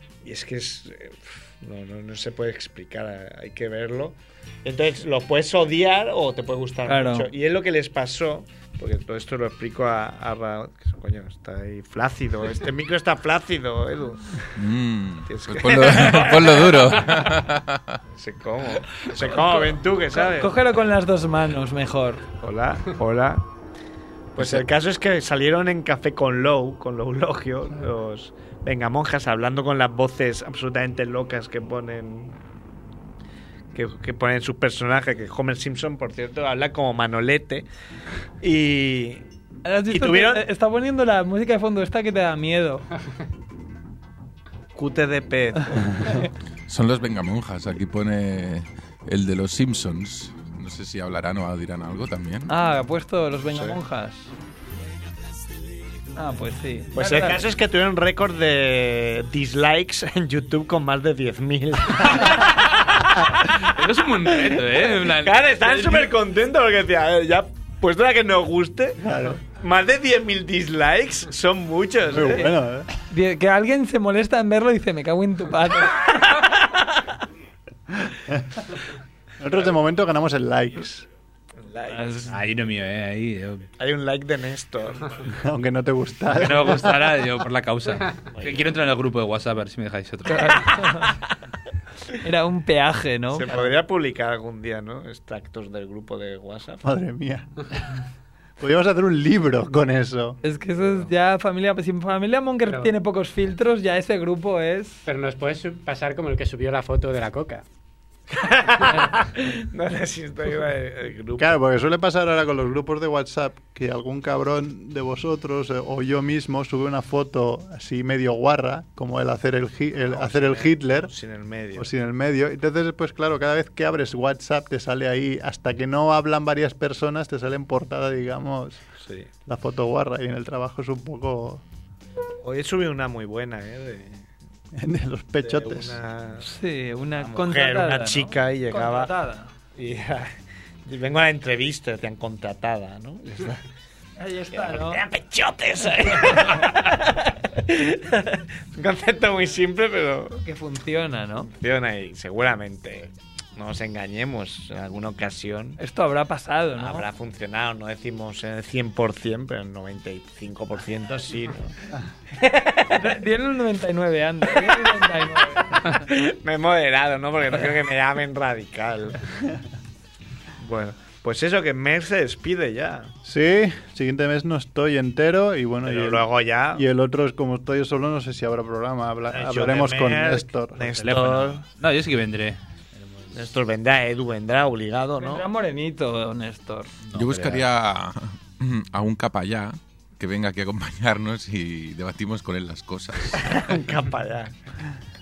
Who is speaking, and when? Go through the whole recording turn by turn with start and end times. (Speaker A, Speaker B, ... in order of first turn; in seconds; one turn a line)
Speaker A: 0.2-14.5
Speaker B: 6.9-7.3
Speaker C: 14.5-18.0
Speaker A: 15.3-17.2
Speaker A: 18.1-20.6
Speaker B: 19.2-22.3
Speaker A: 22.4-23.4
Speaker A: 24.4-32.4
Speaker A: 33.7-37.7
Speaker A: 38.4-39.2
Speaker B: 39.6-42.9
Speaker A: 39.9-40.4
Speaker A: 44.7-46.2
Speaker C: 46.7-52.5
Speaker B: 52.5-54.3
Speaker A: 53.5-53.8
Speaker B: 56.1-57.4
Speaker A: 56.9-63.7
Speaker D: 63.5-66.1
Speaker A: 64.2-72.5
Speaker E: 69.0-69.4
Speaker E: 72.1-72.9
Speaker B: 72.2-76.1
Speaker A: 76.1-76.8
Speaker E: 78.0-78.6
Speaker E: 79.4-81.1
Speaker A: 81.6-82.4
Speaker B: 81.9-82.2
Speaker D: 82.3-83.7
Speaker A: 83.8-85.2
Speaker E: 85.3-87.2
Speaker D: 86.3-90.9
Speaker A: 88.3-88.7
Speaker B: 90.3-91.2
Speaker B: 92.2-93.7
Speaker A: 93.3-96.8
Speaker E: 96.8-97.8
Speaker E: 98.6-100.4
Speaker B: 100.4-105.0
Speaker F: 105.0-107.6
Speaker A: 108.3-111.6
Speaker E: 111.4-121.1
Speaker A: 120.0-121.9
Speaker E: 121.8-128.8
Speaker A: 129.0-129.3
Speaker E: 129.4-131.6
Speaker A: 132.4-134.3
Speaker E: 134.7-136.0
Speaker A: 135.4-136.5
Speaker B: 136.4-139.5
Speaker A: 137.2-139.1
Speaker A: 139.8-140.3
Speaker A: 140.8-143.6
Speaker B: 144.2-145.0
Speaker A: 144.5-150.4
Speaker B: 150.4-151.5
Speaker A: 151.4-155.8
Speaker B: 155.8-157.1
Speaker A: 156.8-161.7
Speaker A: 162.3-163.1
Speaker B: 162.9-166.1
Speaker A: 165.8-169.3
Speaker A: 170.6-173.1
Speaker E: 173.2-180.9
Speaker A: 175.8-176.8
Speaker A: 179.3-181.6
Speaker D: 180.9-183.3
Speaker A: 183.3-185.4
Speaker B: 185.2-186.9
Speaker D: 187.1-187.7
Speaker C: 187.1-193.7
Speaker A: 193.4-194.5